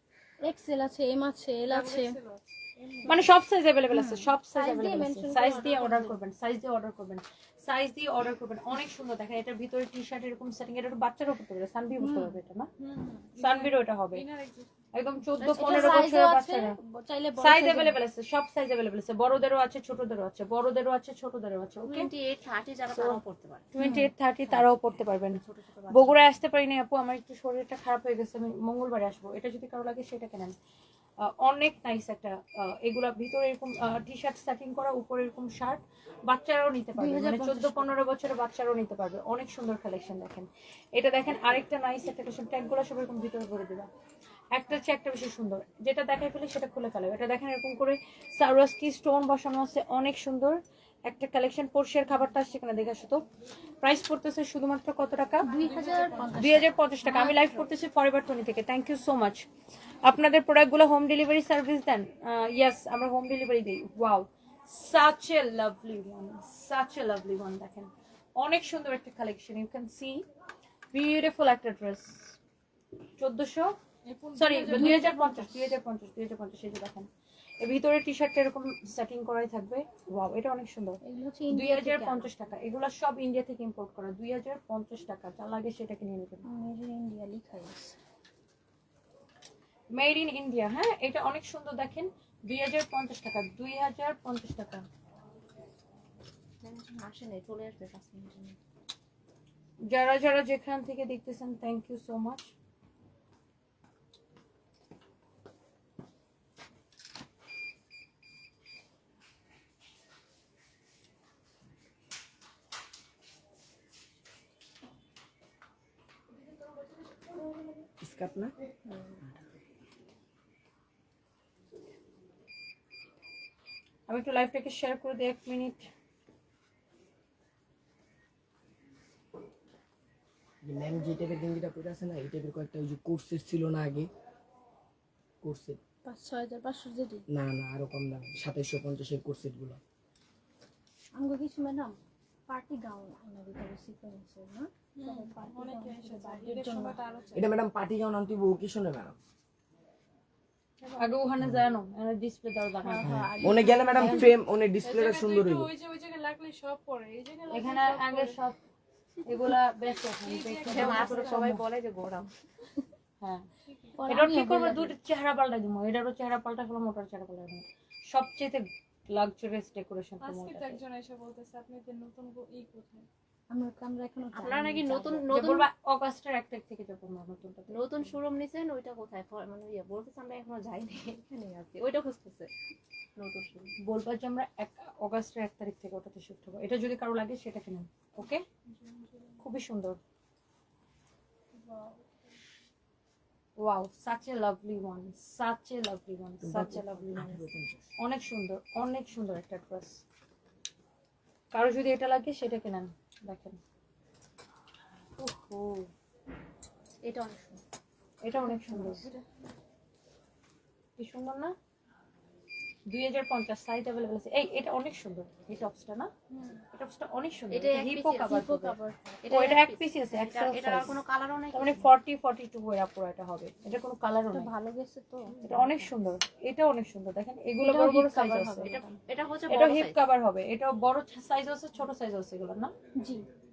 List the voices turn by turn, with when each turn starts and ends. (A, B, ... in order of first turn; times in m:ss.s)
0:00.4-0:02.2 A
0:01.7-0:03.2 B
0:03.0-0:12.7 C
0:03.9-0:06.2 A
0:12.0-0:12.4 A
0:12.8-0:14.7 B
0:13.4-0:14.2 C
0:14.9-0:16.8 C
0:15.4-0:16.1 D
0:15.6-0:18.0 A
0:17.4-0:22.1 C
0:21.8-0:23.7 D
0:22.9-0:23.2 C
0:23.7-0:30.6 C
0:23.8-0:24.1 A
0:24.4-0:26.3 D
0:31.2-0:43.9 C
0:37.0-0:38.0 A
0:44.5-0:53.2 C
0:53.8-0:55.5 C
0:55.4-0:57.5 A
0:55.6-0:56.6 B
0:56.4-0:59.4 C
1:00.0-1:10.2 C
1:10.9-1:12.4 C
1:13.2-1:13.7 C
1:14.1-1:15.5 B
1:14.4-1:17.1 C
1:17.6-1:21.0 C
1:21.0-1:22.3 A
1:21.5-1:26.4 C
1:26.5-1:28.0 A
1:29.9-1:34.9 C
1:36.6-1:38.6 D
1:39.8-1:42.5 C
1:58.0-1:58.5 E
1:58.9-1:59.1 D
2:04.1-2:05.9 C
2:10.6-2:14.1 E
2:15.4-2:15.8 E
2:16.0-2:17.2 A
2:17.3-2:19.8 E
2:21.1-2:27.0 A
2:25.0-2:27.5 B
2:27.3-2:29.2 E
2:30.9-2:33.1 C
2:32.8-2:34.3 A
2:33.0-2:35.7 E
2:34.0-2:34.3 C
2:34.8-2:38.4 B
2:37.5-2:38.6 C
2:39.2-2:41.6 C
2:40.2-2:41.6 B
2:40.7-2:42.3 D
2:43.2-2:43.5 C
2:43.7-2:44.1 B
2:44.0-2:45.0 A
2:44.1-2:50.8 C
2:50.2-2:53.1 B
2:53.5-2:55.2 A
2:54.3-2:55.7 D
2:55.3-2:58.1 C
2:57.7-3:02.5 D
3:03.2-3:03.7 D
3:03.8-3:08.4 C
3:08.7-3:09.2 B
3:09.4-3:10.0 C
3:11.5-3:12.1 B
3:13.6-3:17.4 C
3:16.4-3:17.9 E
3:18.0-3:20.0 C
3:21.5-3:23.6 C
3:25.2-3:25.9 C
3:27.0-3:27.6 D
3:28.2-3:29.1 C
3:28.4-3:29.2 A
3:31.0-3:31.5 C
3:32.9-3:36.1 C
3:36.3-3:36.6 A
3:36.7-3:41.0 C
3:37.5-3:38.4 D
3:38.2-3:39.2 A
3:39.2-3:41.9 D
3:41.5-3:44.5 C
3:44.3-3:45.6 A
3:45.3-3:45.9 D
3:45.4-3:48.7 C
3:47.6-3:49.0 A
3:48.6-3:50.0 D
3:49.5-3:52.7 C
3:53.0-3:53.3 A